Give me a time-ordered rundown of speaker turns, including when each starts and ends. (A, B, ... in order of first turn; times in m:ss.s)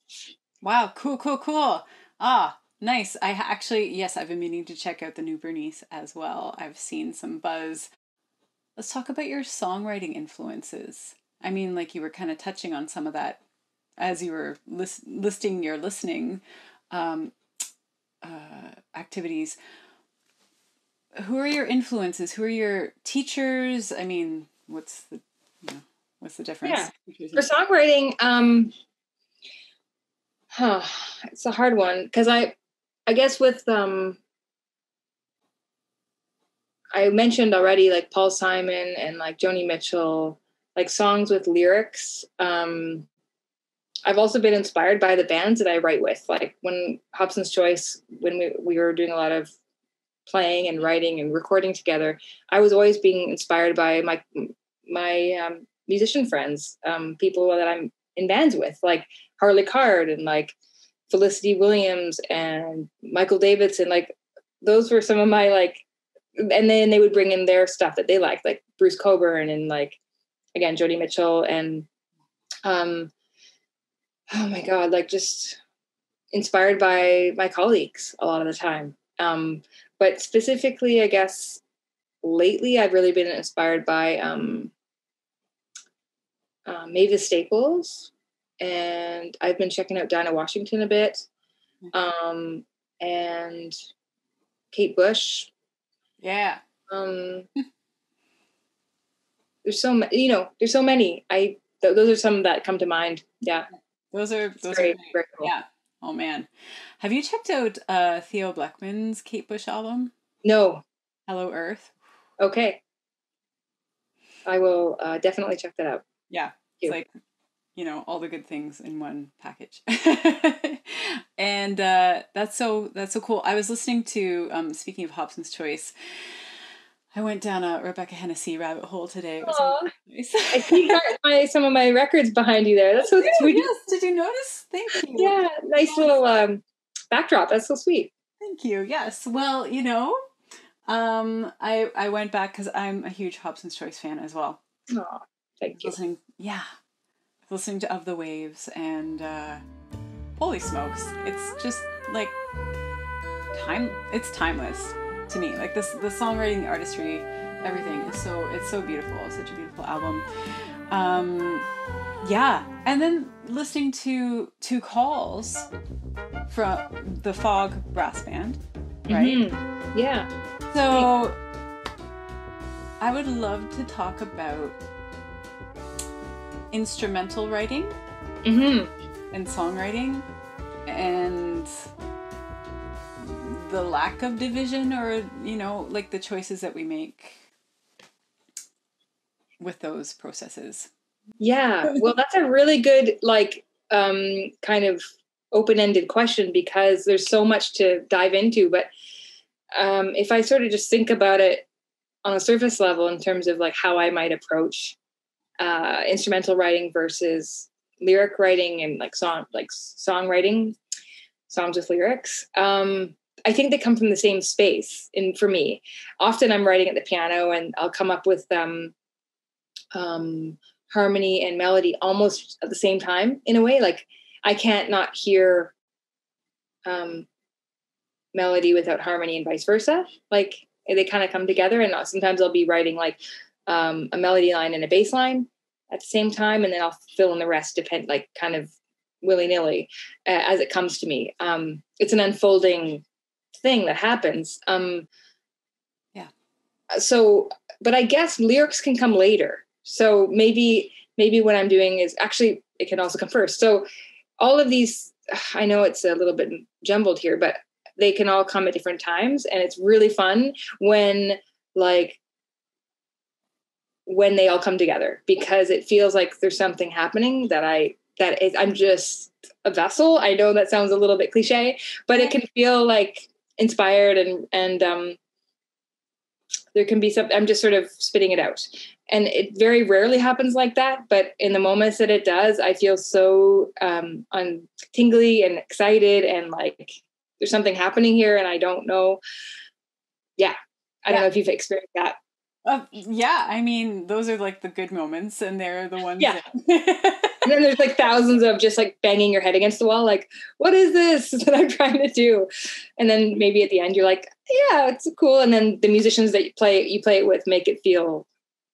0:00.6-0:07.9 A
0:08.8-0:13.4 A
0:14.0-0:17.3 A
0:18.2-0:19.6 A
0:21.2-0:27.5 A
0:26.6-0:28.7 B
0:30.5-0:32.5 B
0:33.1-0:34.2 B
0:36.9-0:43.0 B
0:44.0-0:49.5 B
0:50.3-1:00.5 B
1:01.1-1:05.8 B
1:06.4-1:10.0 B
1:10.5-1:11.9 B
1:12.6-1:13.1 B
1:14.3-1:15.6 B
1:16.3-1:21.6 B
1:22.2-1:24.7 B
1:26.6-1:31.2 B
1:31.9-1:33.7 B
1:34.7-1:35.5 B
1:36.2-1:36.6 A
1:36.9-1:37.5 B
1:39.6-1:43.7 B
1:44.1-1:46.5 A
1:44.7-1:45.5 B
1:47.0-1:50.1 A
1:50.4-1:50.8 B
1:51.3-1:52.0 A
1:52.4-1:52.8 B
1:54.4-1:56.0 B
1:56.3-1:57.1 A
1:57.8-2:05.9 A
2:07.1-2:11.0 A
2:09.4-2:09.9 B
2:10.5-2:13.7 B
2:13.1-2:15.4 A
2:15.1-2:18.1 B
2:18.4-2:20.2 A
2:20.9-2:24.6 A
2:24.9-2:26.0 B
2:25.8-2:26.7 A
2:27.5-2:29.6 A
2:30.4-2:32.3 A
2:33.5-2:40.2 A
2:40.9-2:41.6 A
2:42.2-2:45.7 A
2:46.5-2:49.4 A
2:49.1-2:50.3 B
2:50.7-2:51.4 A
2:53.0-2:54.8 A
2:56.7-2:57.9 A
2:58.4-2:58.9 B
2:59.3-3:00.2 A
3:00.9-3:01.7 A
3:03.2-3:07.4 A
3:09.6-3:10.9 A
3:11.4-3:18.9 B
3:19.7-3:21.6 B
3:22.2-3:25.0 B
3:25.6-3:30.8 B
3:31.5-3:38.9 B
3:39.9-3:45.7 B
3:46.8-3:47.3 B
3:48.3-4:03.0 B
4:03.6-4:05.1 B
4:06.9-4:13.8 B
4:14.4-4:22.2 B
4:24.0-4:35.2 B
4:36.7-4:49.2 B
4:50.4-4:52.2 B
4:52.6-4:57.5 A
4:57.4-5:08.3 B